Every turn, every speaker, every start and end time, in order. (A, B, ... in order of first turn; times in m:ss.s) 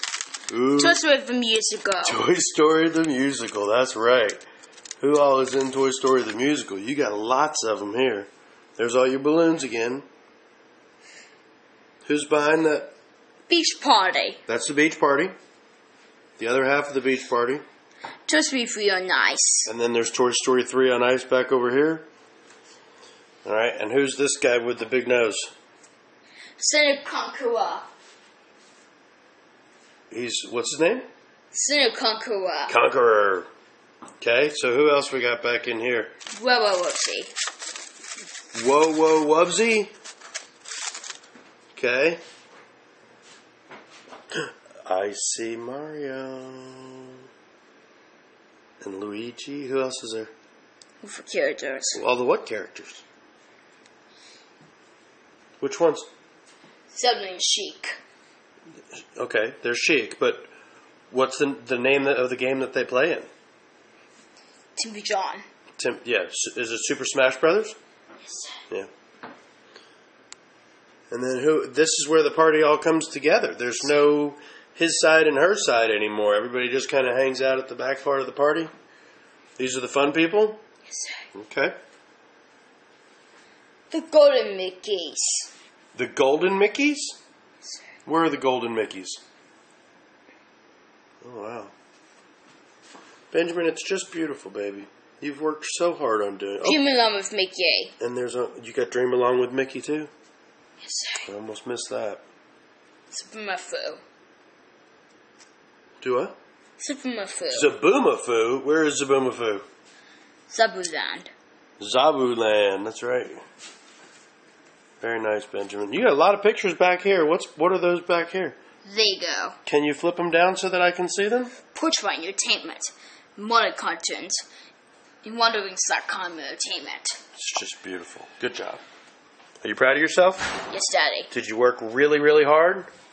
0:00.5-0:01.0 A
0:00.8-0:02.2 B
0:02.0-0:04.4 A
0:05.0-0:10.0 A
0:12.0-0:12.9 A
0:13.5-0:14.4 B
0:14.5-0:15.3 A
0:16.4-0:17.6 A
0:18.3-0:19.7 B
0:19.6-0:22.0 A
0:23.4-0:25.5 A
0:26.6-0:27.9 B
0:30.1-0:31.0 A
0:31.5-0:32.8 B
0:32.7-0:33.5 A
0:34.2-0:36.1 A
0:36.3-0:37.3 B
0:38.5-0:39.9 A
0:41.7-0:42.2 A
0:44.3-0:47.2 A
0:48.8-0:50.3 A
0:51.0-0:52.0 B
0:51.9-0:53.0 A
0:55.6-0:56.1 A
0:56.9-0:58.0 B
0:59.2-1:00.5 A
1:01.1-1:03.3 A
1:04.8-1:05.4 B
1:05.8-1:07.8 A
1:08.2-1:08.6 B
1:11.1-1:18.7 A
1:19.6-1:20.6 A
1:20.9-1:21.2 B
1:21.3-1:21.8 A
1:23.9-1:25.5 B
1:25.9-1:27.2 A
1:28.0-1:29.2 A
1:31.2-1:31.7 A
1:33.3-1:36.8 A
1:36.6-1:37.9 B
1:38.0-1:40.1 A
1:40.8-1:41.3 B
1:41.2-1:42.2 A
1:43.1-1:44.0 B
1:46.0-1:46.4 A
1:46.8-1:47.7 B
1:47.5-1:49.6 A
1:50.5-1:51.3 B
1:51.8-1:53.4 A
1:55.0-1:58.6 A
1:58.8-1:59.6 B
1:59.6-2:01.6 A
2:01.7-2:04.4 B
2:05.2-2:07.2 B
2:07.4-2:08.8 A
2:09.6-2:10.6 A
2:10.7-2:11.3 B
2:11.3-2:12.9 A